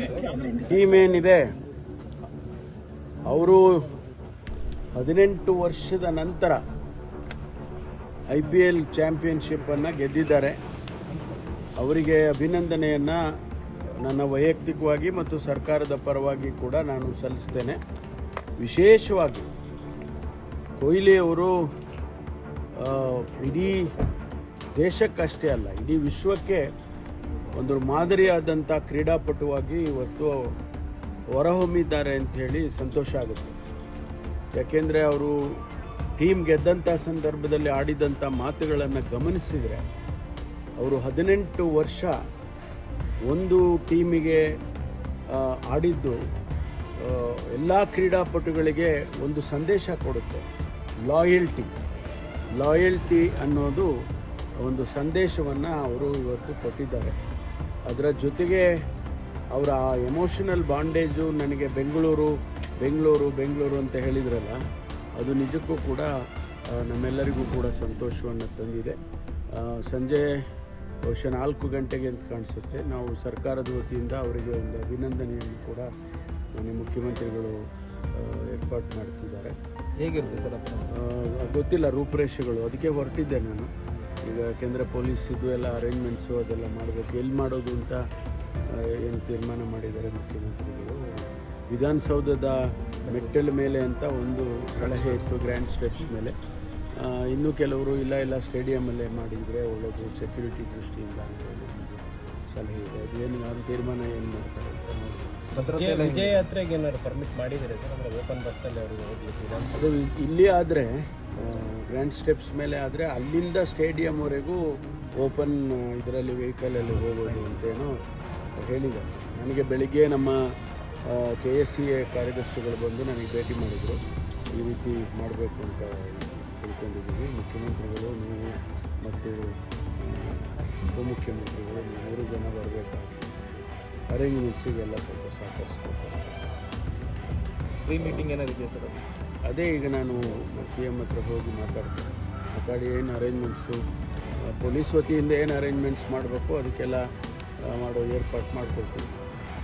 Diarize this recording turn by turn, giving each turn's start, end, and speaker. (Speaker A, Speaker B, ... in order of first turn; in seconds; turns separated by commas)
Speaker A: 0.6-1.4, Speaker A: 3.3-3.7, Speaker A: 5.0-6.6, Speaker A: 8.3-10.6, Speaker A: 11.8-13.2, Speaker A: 14.0-17.8, Speaker A: 18.6-19.5, Speaker A: 20.8-21.5, Speaker A: 22.8-23.9, Speaker A: 24.8-26.6, Speaker A: 27.5-30.4, Speaker A: 31.3-33.6, Speaker A: 34.5-35.4, Speaker A: 36.2-39.9, Speaker A: 40.8-42.1, Speaker A: 43.3-44.4, Speaker A: 45.3-46.2, Speaker A: 47.0-50.5, Speaker A: 51.1-51.7, Speaker A: 52.6-53.9, Speaker A: 54.6-57.2, Speaker A: 57.9-58.7, Speaker A: 59.5-64.6, Speaker A: 65.2-66.1, Speaker A: 66.7-69.0, Speaker A: 69.5-70.3, Speaker A: 71.1-75.9, Speaker A: 76.6-77.6, Speaker A: 78.2-79.5, Speaker B: 80.0-80.9, Speaker A: 80.2-83.7, Speaker A: 84.3-88.0, Speaker A: 88.7-91.0, Speaker A: 91.7-96.3, Speaker A: 97.0-105.4, Speaker B: 105.5-106.5, Speaker C: 105.6-109.7, Speaker A: 109.7-114.6, Speaker A: 115.2-118.0, Speaker A: 118.6-120.4, Speaker A: 121.1-124.0, Speaker A: 124.5-129.4, Speaker A: 130.0-133.4, Speaker A: 134.1-136.3, Speaker B: 137.9-139.0, Speaker A: 138.0-138.3, Speaker A: 139.5-143.8, Speaker A: 144.5-147.0, Speaker A: 147.7-149.2